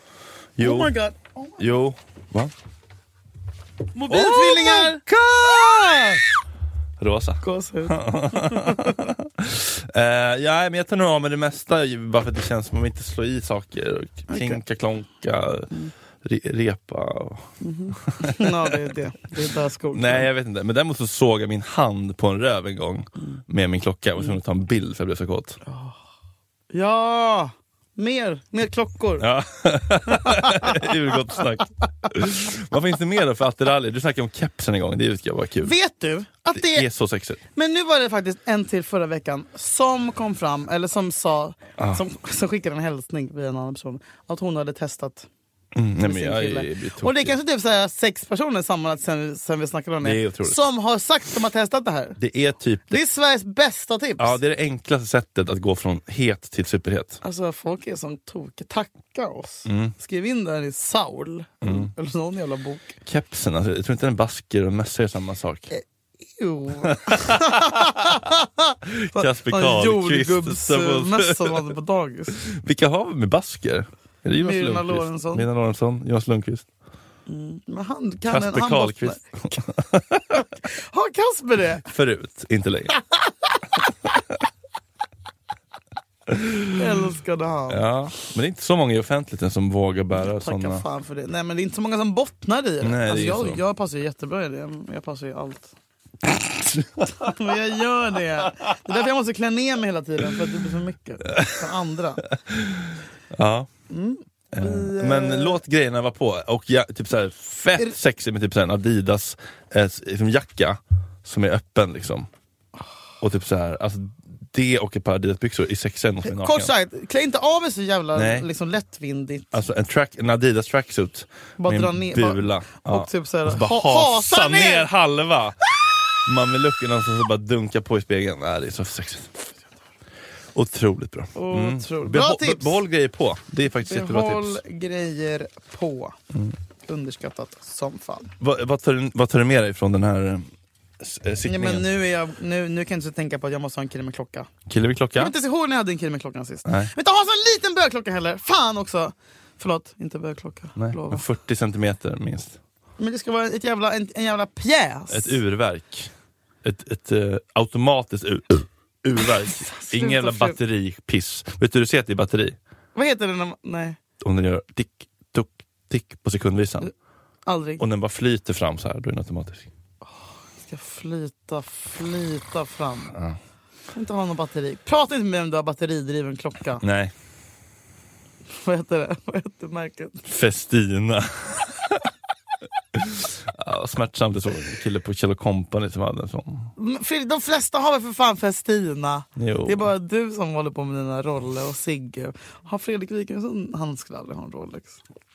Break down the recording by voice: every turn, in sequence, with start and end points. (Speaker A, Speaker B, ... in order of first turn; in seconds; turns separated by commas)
Speaker A: 0.6-0.9, Speaker B: 0.6-1.6, Speaker A: 1.6-2.5, Speaker B: 3.9-6.2, Speaker A: 4.1-6.2, Speaker A: 7.0-15.7, Speaker B: 7.4-9.1, Speaker B: 14.3-14.6, Speaker A: 16.2-18.8, Speaker B: 17.6-20.3, Speaker A: 19.9-25.6, Speaker B: 25.6-26.0, Speaker B: 26.7-29.3, Speaker A: 29.2-35.7, Speaker B: 30.1-30.9, Speaker B: 35.6-36.9, Speaker A: 36.5-37.4, Speaker B: 37.5-45.3, Speaker A: 41.8-42.0, Speaker A: 45.7-47.3, Speaker B: 46.0-52.2, Speaker A: 50.0-50.6, Speaker A: 52.2-53.0, Speaker B: 52.9-54.4, Speaker A: 54.2-57.2, Speaker B: 57.2-63.0, Speaker A: 59.6-59.9, Speaker A: 61.6-61.9, Speaker A: 63.0-65.7, Speaker B: 65.7-72.4, Speaker A: 66.9-68.1, Speaker A: 68.9-71.7, Speaker A: 72.3-76.7, Speaker B: 74.4-75.5, Speaker B: 77.3-79.6, Speaker A: 78.3-80.4, Speaker B: 80.3-81.8, Speaker A: 81.8-82.9, Speaker B: 83.0-83.6, Speaker A: 86.3-86.8, Speaker B: 86.7-87.8, Speaker A: 87.7-90.8, Speaker B: 90.2-95.7, Speaker A: 92.8-93.6, Speaker A: 96.7-97.4, Speaker B: 97.0-102.2, Speaker A: 101.3-101.7, Speaker A: 102.5-103.7, Speaker B: 103.9-105.6, Speaker A: 104.5-112.3, Speaker A: 113.2-116.7, Speaker B: 116.2-119.5, Speaker A: 118.1-118.5, Speaker A: 119.5-125.6, Speaker B: 121.6-124.9, Speaker A: 126.2-129.3, Speaker A: 130.5-134.6, Speaker B: 131.3-132.8, Speaker B: 133.8-136.2, Speaker B: 136.9-138.3, Speaker A: 138.4-141.9, Speaker B: 141.4-144.5, Speaker A: 144.7-145.3, Speaker B: 145.2-151.2, Speaker A: 146.6-146.9, Speaker A: 150.8-152.6, Speaker B: 153.0-155.4, Speaker A: 155.1-156.1, Speaker A: 156.6-162.6, Speaker B: 159.5-160.6, Speaker B: 162.9-164.0, Speaker A: 164.2-166.9, Speaker B: 167.4-167.8, Speaker A: 167.8-169.7, Speaker B: 170.6-173.2, Speaker B: 173.9-176.8, Speaker A: 176.8-177.1, Speaker B: 178.6-180.2, Speaker A: 180.3-182.1, Speaker A: 182.9-186.7, Speaker B: 186.8-195.0, Speaker A: 189.4-189.9